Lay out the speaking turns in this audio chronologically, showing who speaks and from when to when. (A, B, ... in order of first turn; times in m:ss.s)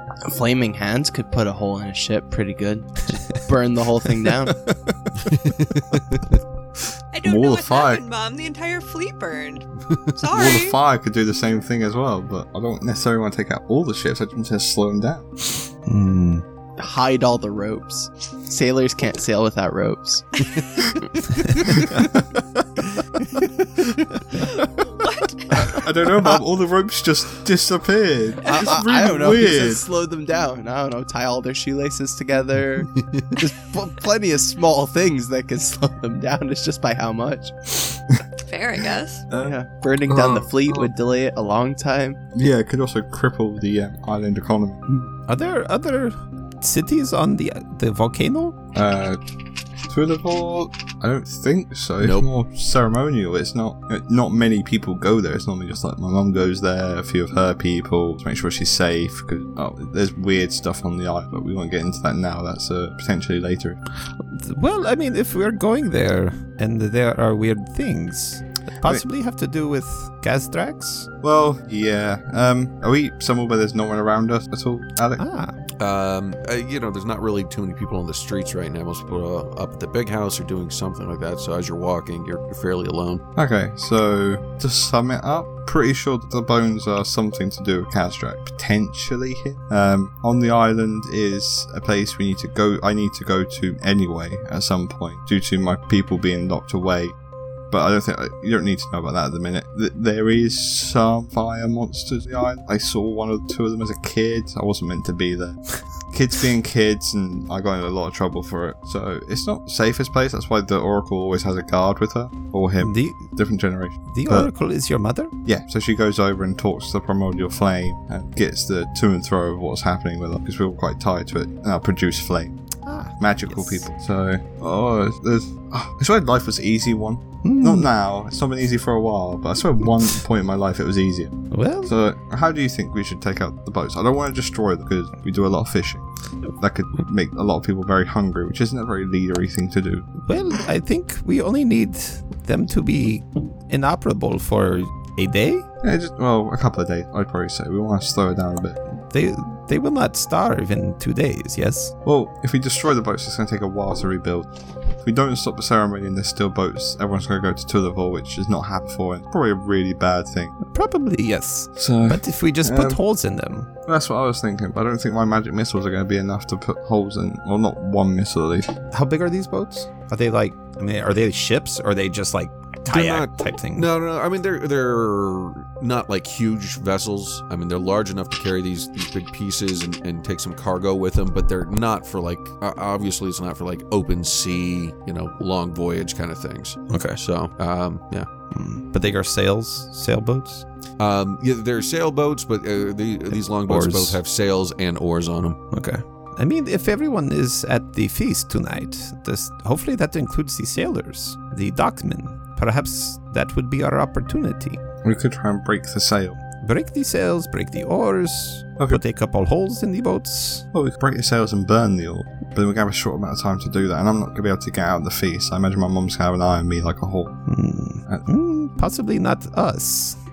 0:00.2-0:04.6 A
0:04.6-0:05.1 B
0:05.2-0:06.4 C
0:07.1-0:10.8 D
0:07.2-0:08.0 E
0:10.3-0:15.3 E
0:15.8-0:16.4 B
0:16.8-0:21.0 A
0:21.6-0:22.0 A
0:24.3-0:25.8 D
0:25.6-0:29.8 E
0:28.4-0:38.0 A
0:33.0-0:33.3 C
0:38.4-0:39.3 D
0:39.3-0:40.9 E
0:39.4-0:42.2 A
0:42.3-0:44.8 E
0:45.3-0:48.6 B
0:48.7-0:49.2 E
0:49.8-1:03.8 E
0:52.0-0:52.3 C
1:04.2-1:11.1 B
1:11.2-1:15.2 E
1:15.2-1:15.6 B
1:15.8-1:23.2 C
1:23.4-1:37.2 E
1:37.7-1:54.5 E
1:52.8-1:53.3 B
1:54.1-1:55.3 B
1:55.4-2:02.6 E
2:02.8-2:03.8 B
2:03.2-2:20.1 E
2:07.4-2:07.9 B
2:11.5-2:11.9 B
2:20.2-2:25.7 B
2:25.8-2:28.8 E
2:28.9-2:31.9 B
2:32.0-2:40.5 E
2:40.6-2:43.7 B
2:41.8-2:43.0 E
2:43.8-2:48.7 E
2:48.9-2:53.9 B
2:52.9-3:08.3 C
3:06.9-3:07.2 B
3:08.5-3:10.6 B
3:11.0-3:15.6 C
3:13.4-3:14.2 B
3:15.7-3:24.8 B
3:25.0-3:26.4 E
3:26.6-3:30.6 B
3:30.7-3:37.4 E
3:37.5-3:40.2 B